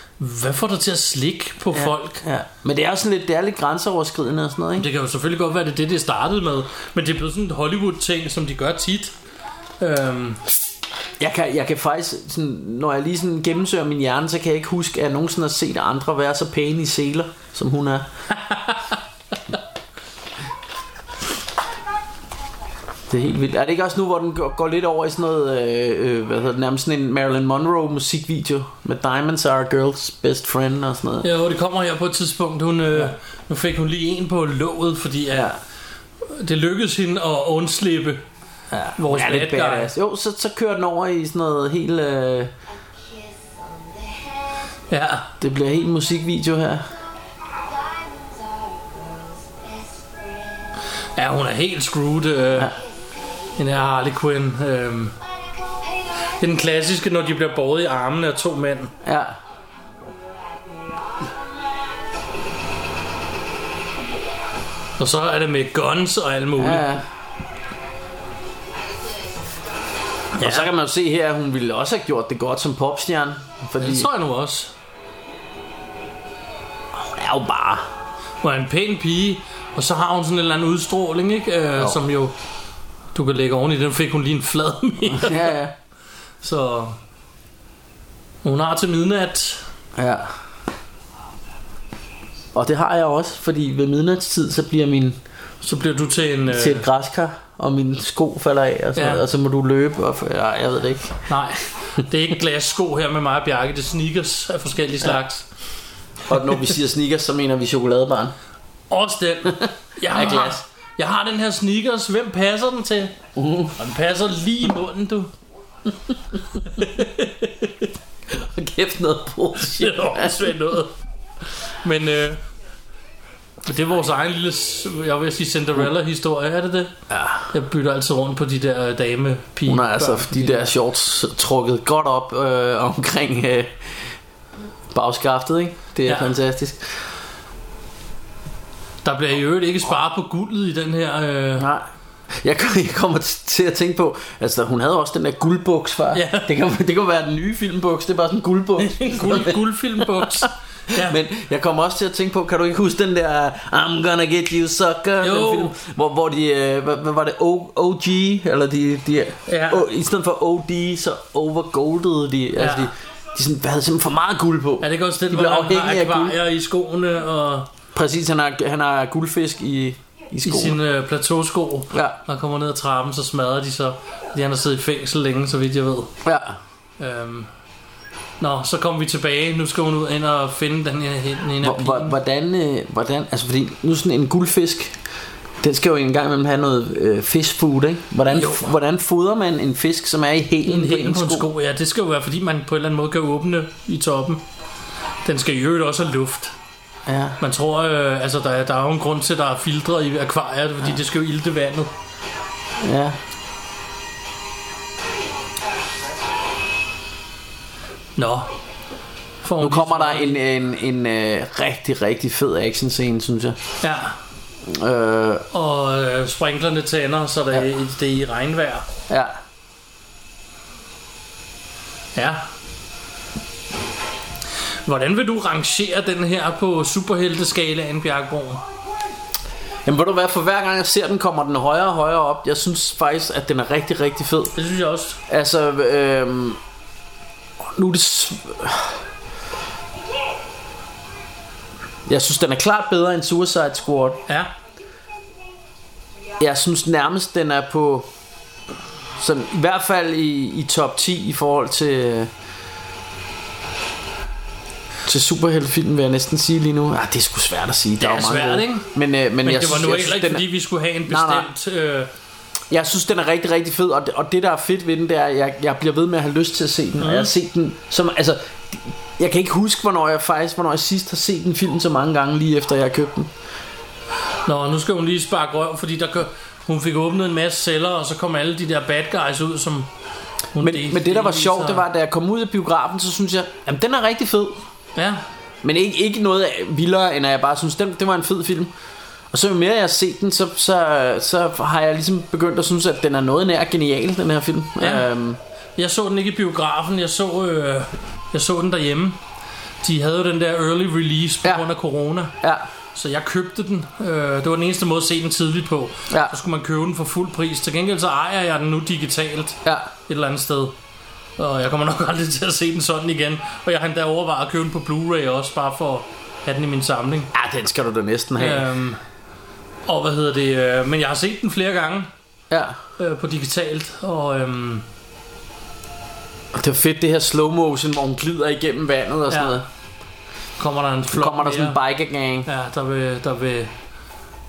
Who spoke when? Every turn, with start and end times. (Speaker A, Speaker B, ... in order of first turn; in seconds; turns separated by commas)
Speaker A: 0.2-2.2, Speaker B: 1.7-4.9, Speaker A: 4.8-9.1, Speaker A: 9.8-10.4, Speaker B: 11.2-18.1, Speaker A: 18.4-18.9, Speaker B: 23.1-31.3, Speaker A: 31.2-35.5, Speaker B: 35.3-35.6, Speaker A: 36.2-38.2, Speaker B: 38.7-42.5, Speaker A: 39.0-39.9, Speaker C: 42.7-44.8, Speaker A: 44.9-45.3, Speaker B: 45.4-46.9, Speaker C: 47.4-50.8, Speaker A: 51.1-52.7, Speaker C: 52.6-53.5, Speaker A: 53.6-55.1, Speaker C: 55.4-56.4, Speaker A: 56.3-58.9, Speaker B: 59.0-59.4, Speaker C: 60.1-62.2, Speaker A: 65.0-66.8, Speaker B: 66.6-67.1, Speaker A: 70.3-70.7, Speaker B: 70.4-74.1, Speaker A: 73.8-74.7, Speaker B: 76.9-77.9, Speaker A: 78.4-82.3, Speaker A: 83.1-85.5, Speaker B: 85.1-85.7, Speaker A: 86.4-87.0, Speaker A: 88.4-89.7, Speaker B: 90.0-90.3, Speaker B: 92.5-95.2, Speaker A: 95.6-96.8, Speaker B: 96.5-101.3, Speaker A: 99.0-99.2, Speaker A: 101.3-105.5, Speaker B: 106.3-108.3, Speaker A: 108.9-113.2, Speaker B: 109.6-110.6, Speaker B: 113.3-113.7, Speaker A: 113.7-115.3, Speaker A: 116.6-117.9, Speaker B: 118.3-120.5, Speaker A: 119.6-120.9, Speaker A: 121.7-122.4, Speaker A: 123.6-126.9, Speaker B: 127.1-127.5, Speaker A: 127.5-130.7, Speaker B: 129.7-134.1, Speaker B: 134.9-136.9, Speaker A: 136.1-136.3, Speaker A: 139.0-141.7, Speaker B: 141.6-141.8, Speaker B: 142.4-166.4, Speaker A: 146.1-146.5, Speaker A: 148.8-151.2, Speaker A: 155.2-155.7, Speaker A: 159.5-159.8, Speaker A: 162.6-162.9, Speaker A: 164.8-167.7, Speaker B: 167.9-170.8, Speaker A: 170.4-176.2, Speaker B: 171.9-172.2, Speaker B: 176.2-176.6, Speaker A: 177.0-177.5, Speaker A: 178.4-182.1, Speaker B: 181.6-185.0, Speaker B: 185.6-191.5, Speaker A: 188.3-188.7, Speaker A: 190.6-194.4, Speaker A: 195.2-196.5, Speaker B: 197.1-197.4, Speaker A: 197.4-201.9, Speaker B: 202.8-203.2, Speaker A: 208.2-208.5, Speaker A: 209.4-210.4, Speaker B: 209.6-213.6, Speaker A: 213.8-214.2, Speaker B: 214.7-215.4, Speaker A: 215.5-218.9, Speaker B: 219.1-219.4, Speaker A: 222.1-222.4, Speaker A: 224.8-228.6, Speaker B: 229.8-234.5, Speaker A: 234.5-235.2, Speaker B: 235.3-236.6, Speaker B: 237.7-239.0, Speaker B: 242.1-244.2, Speaker A: 244.3-244.5, Speaker B: 246.4-248.1, Speaker B: 249.2-252.3, Speaker B: 255.0-260.4, Speaker A: 258.0-258.9, Speaker A: 259.4-262.1, Speaker B: 261.1-261.5, Speaker B: 262.7-273.3, Speaker A: 267.0-267.3, Speaker A: 274.4-279.9, Speaker A: 280.5-281.8, Speaker B: 280.6-284.6, Speaker A: 284.9-285.2, Speaker B: 285.6-288.7, Speaker B: 289.3-295.4, Speaker A: 294.8-295.1, Speaker A: 295.8-299.2, Speaker A: 299.8-302.3, Speaker B: 302.4-302.6, Speaker A: 302.9-310.7, Speaker B: 306.1-306.4, Speaker B: 309.6-309.9, Speaker A: 311.4-317.3, Speaker B: 317.3-318.7, Speaker A: 318.4-319.0, Speaker A: 319.9-322.1, Speaker B: 322.5-322.8, Speaker A: 323.0-324.9, Speaker B: 326.5-329.6, Speaker A: 329.3-329.6, Speaker A: 330.6-331.8, Speaker B: 331.1-332.5, Speaker A: 332.4-333.7